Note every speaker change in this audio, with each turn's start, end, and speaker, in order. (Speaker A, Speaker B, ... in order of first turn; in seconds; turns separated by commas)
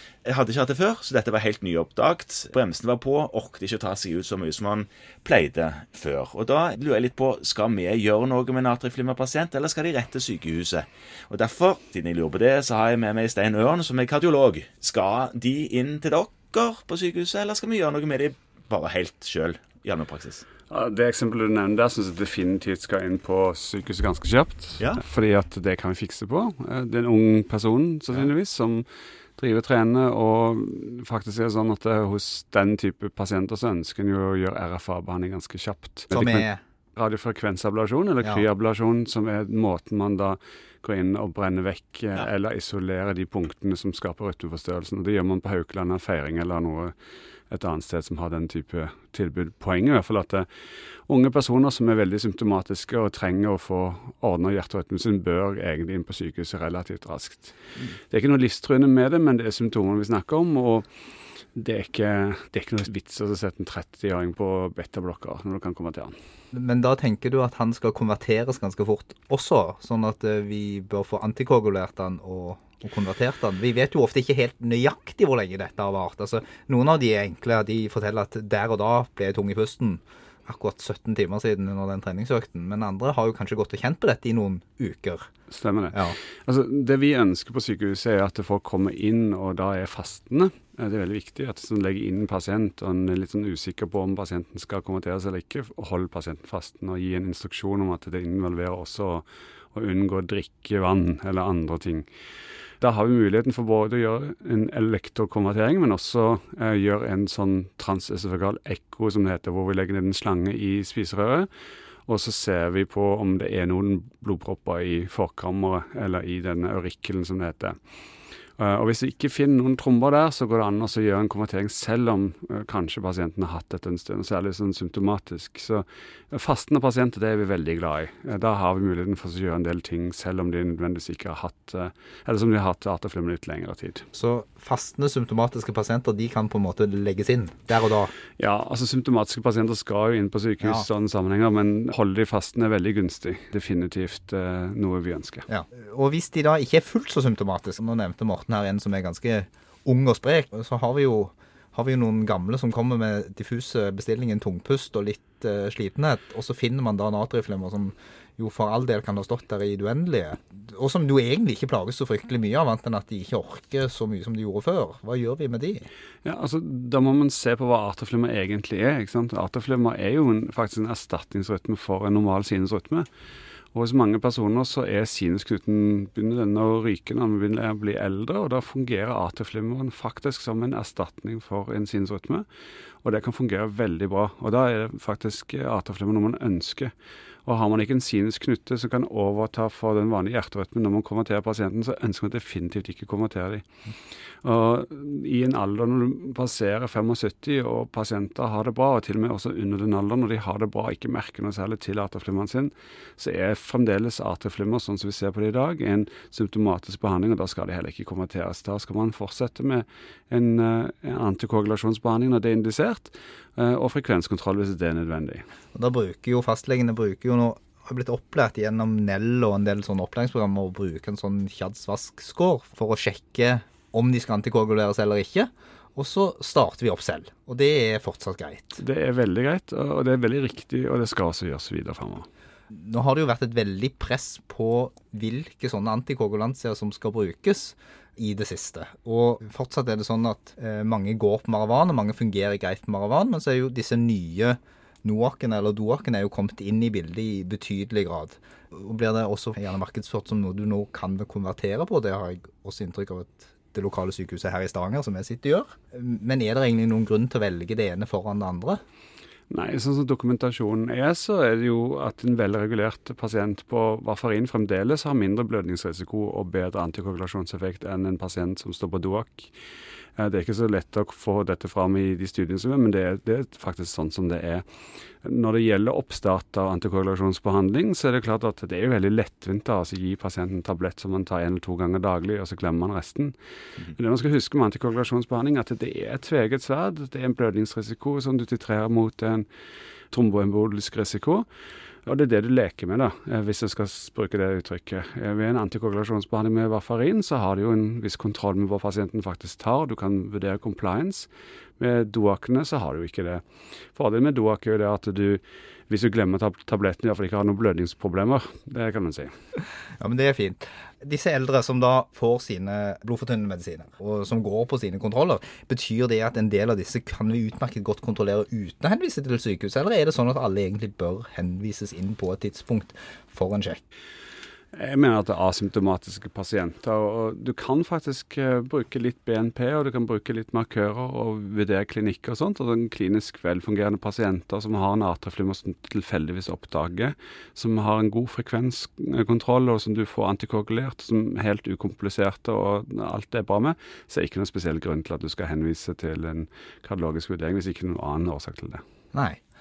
Speaker A: 0.2-20.4, Speaker B: 20.7-28.9, Speaker B: 29.4-36.4, Speaker C: 36.1-36.6, Speaker B: 37.0-46.9, Speaker B: 47.5-50.5, Speaker B: 51.1-57.5, Speaker B: 58.1-60.9, Speaker B: 61.5-66.1, Speaker C: 66.5-85.3, Speaker B: 85.5-102.0, Speaker B: 102.8-111.5, Speaker B: 112.1-117.8, Speaker B: 118.6-134.0, Speaker C: 134.1-138.1, Speaker B: 138.4-145.5, Speaker C: 145.5-165.9, Speaker B: 166.2-173.1, Speaker B: 173.7-182.4, Speaker B: 183.0-186.9, Speaker B: 187.4-193.6, Speaker B: 194.4-215.4, Speaker C: 215.7-228.8, Speaker B: 228.8-232.2, Speaker C: 232.7-258.8, Speaker B: 259.5-269.5, Speaker B: 270.2-274.6, Speaker B: 275.2-283.3, Speaker B: 283.9-289.4, Speaker B: 290.1-291.4, Speaker B: 292.1-301.3, Speaker B: 301.8-303.4, Speaker B: 303.9-309.3, Speaker C: 310.0-323.8, Speaker B: 324.7-348.8, Speaker C: 349.1-349.4